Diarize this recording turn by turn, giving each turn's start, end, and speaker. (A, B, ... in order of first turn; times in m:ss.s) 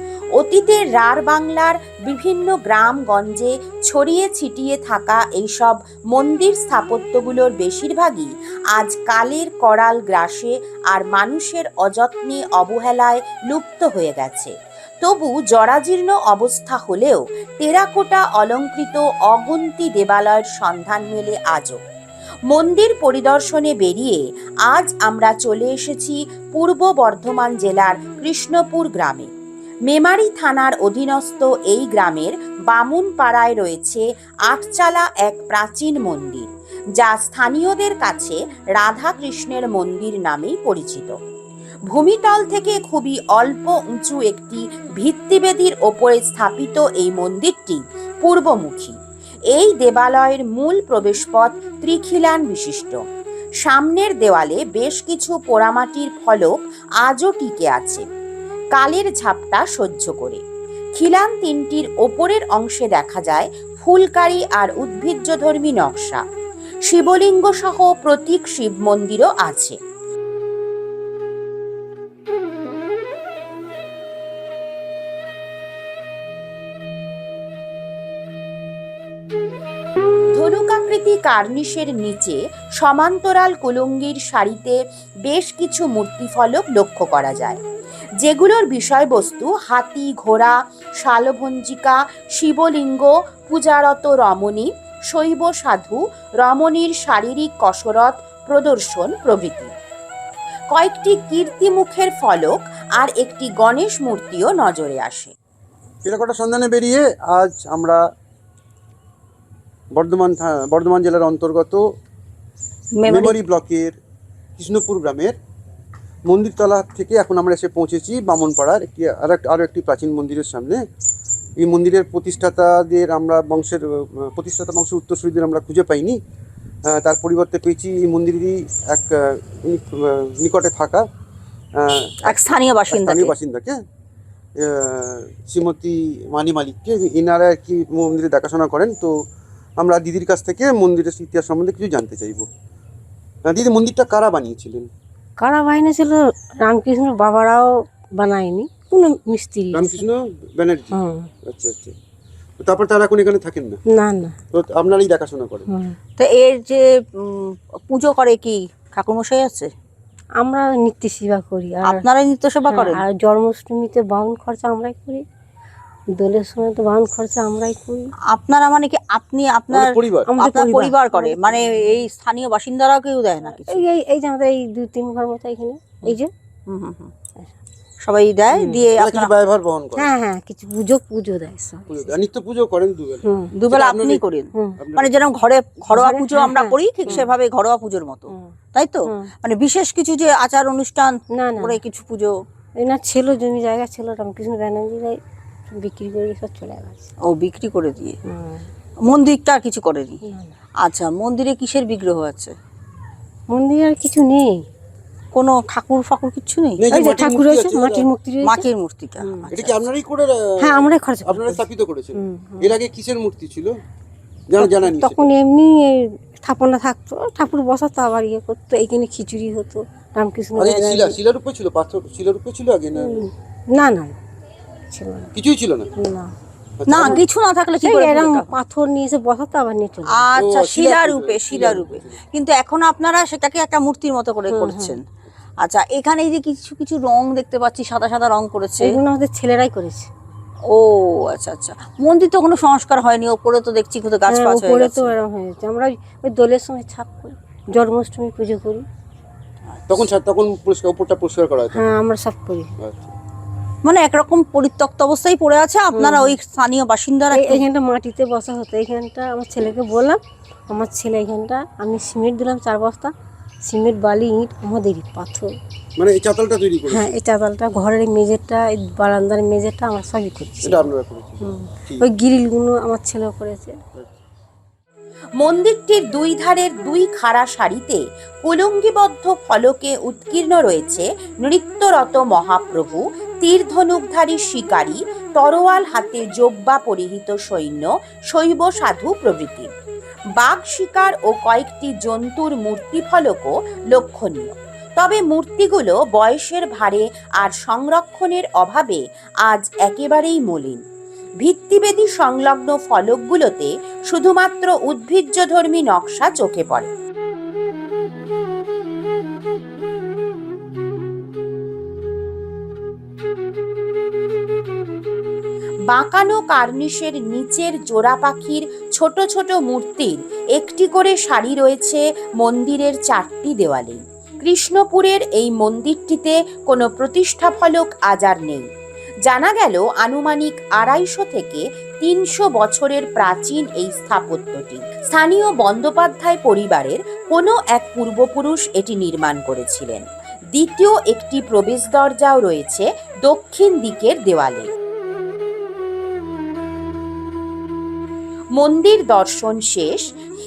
0:00.4-0:21.8 A
0:22.5-0:29.3 A
0:29.9-0:36.5 A
0:37.0-0:41.1 A
0:41.9-0:49.0 A
0:49.5-0:53.0 A
0:53.6-0:58.0 A
0:58.8-1:00.4 A
1:01.0-1:06.2 A
1:06.9-1:09.8 A
1:20.3-1:27.6 A
1:28.2-1:39.7 A
1:40.7-1:45.3 A
1:46.0-1:48.0 B
1:49.9-1:51.8 B
1:53.0-1:53.4 C
1:53.1-1:54.0 B
1:54.6-1:55.4 B
1:56.3-2:00.8 B
2:01.6-2:06.2 B
2:06.9-2:11.0 B
2:11.8-2:12.4 B
2:12.2-2:13.3 C
2:12.9-2:13.8 B
2:14.6-2:19.1 B
2:19.8-2:22.5 B
2:23.5-2:24.9 B
2:25.4-2:30.0 D
2:29.7-2:31.0 B
2:31.0-2:31.3 D
2:31.5-2:32.0 B
2:32.6-2:33.8 B
2:33.9-2:34.4 D
2:34.5-2:35.7 B
2:35.7-2:36.0 D
2:36.2-2:39.7 C
2:40.4-2:42.1 D
2:41.9-2:43.0 C
2:42.7-2:45.2 D
2:46.2-2:48.1 D
2:48.3-2:53.9 C
2:49.7-2:50.3 B
2:50.3-2:52.0 D
2:53.5-2:56.3 D
2:56.7-2:57.1 C
2:58.0-2:59.3 C
2:58.5-2:58.8 D
2:59.0-3:00.1 B
3:00.0-3:02.1 D
3:01.9-3:04.2 B
3:03.2-3:03.5 D
3:03.6-3:12.3 C
3:04.5-3:04.8 D
3:04.8-3:05.1 B
3:05.9-3:07.3 D
3:11.3-3:11.8 D
3:12.8-3:15.2 D
3:15.7-3:17.1 D
3:17.2-3:18.2 C
3:18.3-3:18.7 D
3:19.1-3:20.2 C
3:20.3-3:20.5 D
3:20.8-3:22.6 C
3:23.5-3:24.6 D
3:25.3-3:26.8 C
3:26.8-3:28.1 B
3:26.9-3:28.7 D
3:28.4-3:29.8 C
3:29.5-3:33.8 B
3:30.6-3:31.6 D
3:32.2-3:32.7 D
3:34.5-3:35.3 B
3:34.6-3:41.2 D
3:40.6-3:43.3 B
3:43.0-3:44.2 D
3:44.9-3:45.3 D
3:45.4-3:45.9 B
3:46.0-3:46.3 D
3:46.8-3:47.2 B
3:46.9-3:48.5 C
3:47.8-3:50.4 D
3:50.1-3:55.0 C
3:50.4-3:52.2 B
3:54.5-3:55.0 D
3:55.6-3:59.0 C
3:58.8-4:00.1 D
4:00.7-4:05.1 C
4:04.3-4:08.8 D
4:09.9-4:11.9 B
4:11.7-4:12.7 D
4:12.8-4:13.2 B
4:13.8-4:17.6 C
4:15.9-4:16.4 D
4:17.3-4:20.2 D
4:20.7-4:23.1 D
4:23.6-4:25.5 D
4:26.0-4:27.2 B
4:26.9-4:30.9 D
4:30.6-4:32.1 B
4:31.4-4:33.8 D
4:35.4-4:49.7 A
4:50.4-5:00.8 A
5:01.4-5:06.9 A
5:15.9-5:28.7 A
5:29.3-5:44.7 A
5:48.6-5:50.1 A